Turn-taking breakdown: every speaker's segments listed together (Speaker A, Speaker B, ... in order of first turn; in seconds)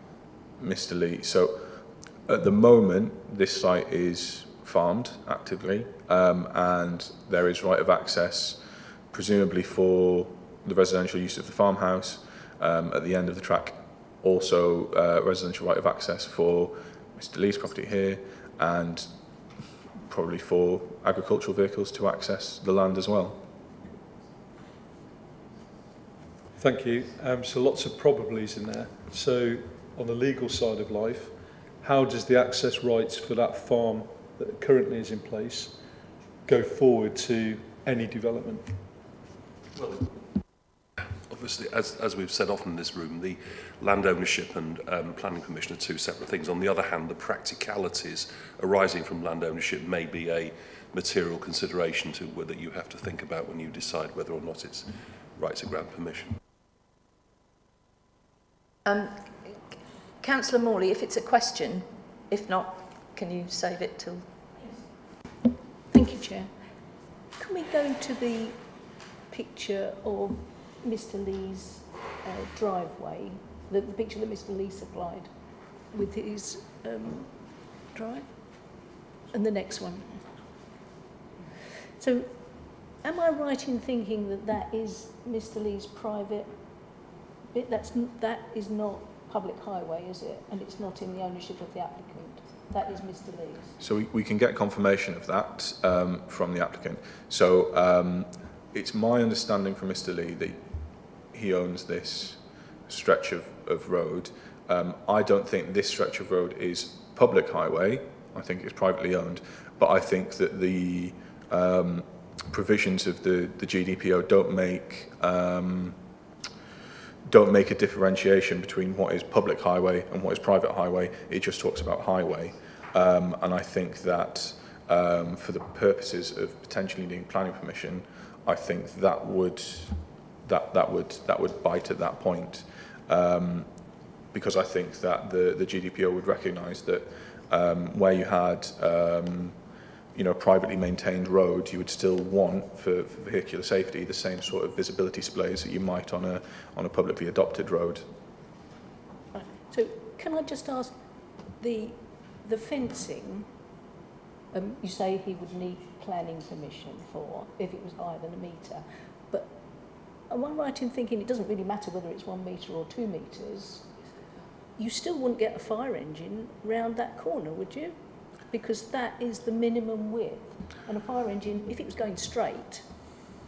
Speaker A: 0.6-19.1, 20.0-23.4, 93.8-116.0, 117.2-133.7, 134.3-139.6, 140.2-148.1
Speaker B: 26.6-35.8, 36.5-38.7
Speaker C: 39.8-40.1, 41.2-56.4
Speaker D: 58.9-59.6, 60.2-64.3
Speaker E: 65.9-66.6, 67.3-68.6, 69.3-75.3, 75.9-78.7, 79.3-80.4, 82.0-86.6, 87.5-93.8, 149.3-151.0, 151.6-153.5, 154.5-159.6, 160.2-164.1, 164.8-172.9